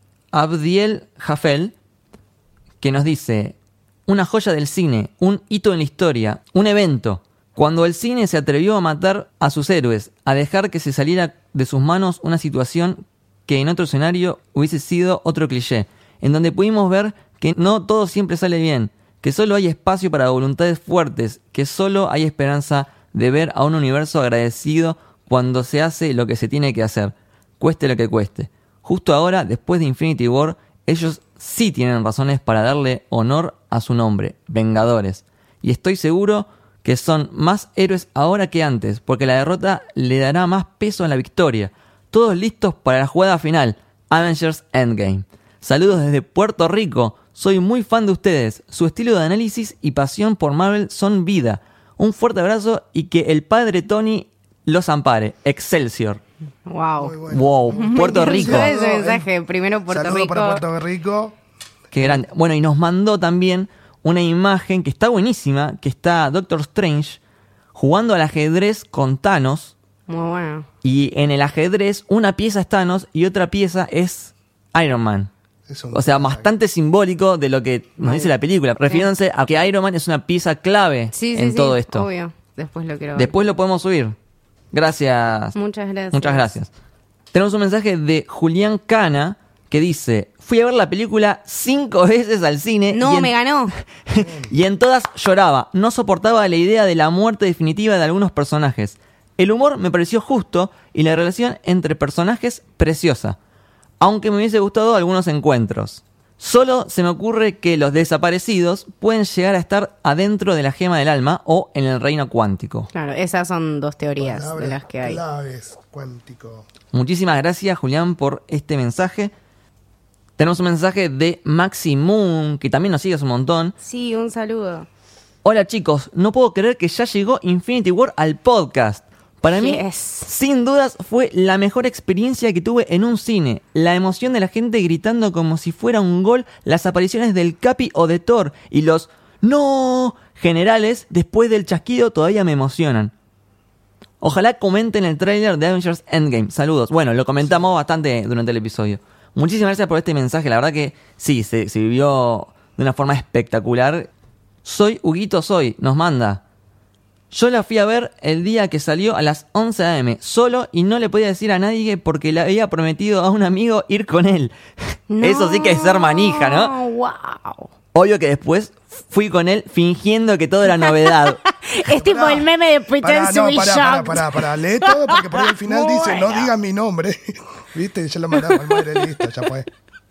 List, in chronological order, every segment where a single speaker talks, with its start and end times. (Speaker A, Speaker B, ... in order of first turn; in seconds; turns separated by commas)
Speaker A: 0.3-1.7, Speaker A: 2.8-3.6, Speaker A: 4.1-56.2, Speaker B: 56.7-57.2, Speaker C: 57.0-59.3, Speaker A: 57.3-58.7, Speaker B: 57.7-60.6, Speaker C: 59.9-61.4, Speaker A: 61.9-67.2, Speaker C: 61.9-62.2, Speaker A: 67.8-69.7, Speaker B: 70.1-70.7, Speaker A: 70.8-75.3, Speaker C: 75.7-76.5, Speaker A: 75.9-82.1, Speaker B: 78.0-78.3, Speaker B: 81.1-83.3, Speaker A: 83.2-84.2, Speaker A: 84.7-85.6, Speaker B: 85.6-86.5, Speaker A: 86.1-86.7, Speaker A: 87.3-93.3, Speaker B: 92.9-93.7, Speaker A: 94.1-103.4, Speaker C: 94.2-94.5, Speaker A: 104.0-112.9, Speaker B: 112.9-115.2, Speaker C: 114.2-116.7, Speaker A: 116.9-119.3, Speaker A: 120.4-123.7, Speaker B: 123.8-124.9, Speaker A: 125.4-143.1, Speaker B: 129.5-130.3, Speaker A: 144.2-154.1, Speaker A: 154.7-156.4, Speaker A: 157.3-166.7, Speaker B: 165.1-167.7, Speaker A: 167.9-171.4, Speaker B: 170.7-176.5, Speaker C: 171.9-172.5, Speaker C: 173.0-179.7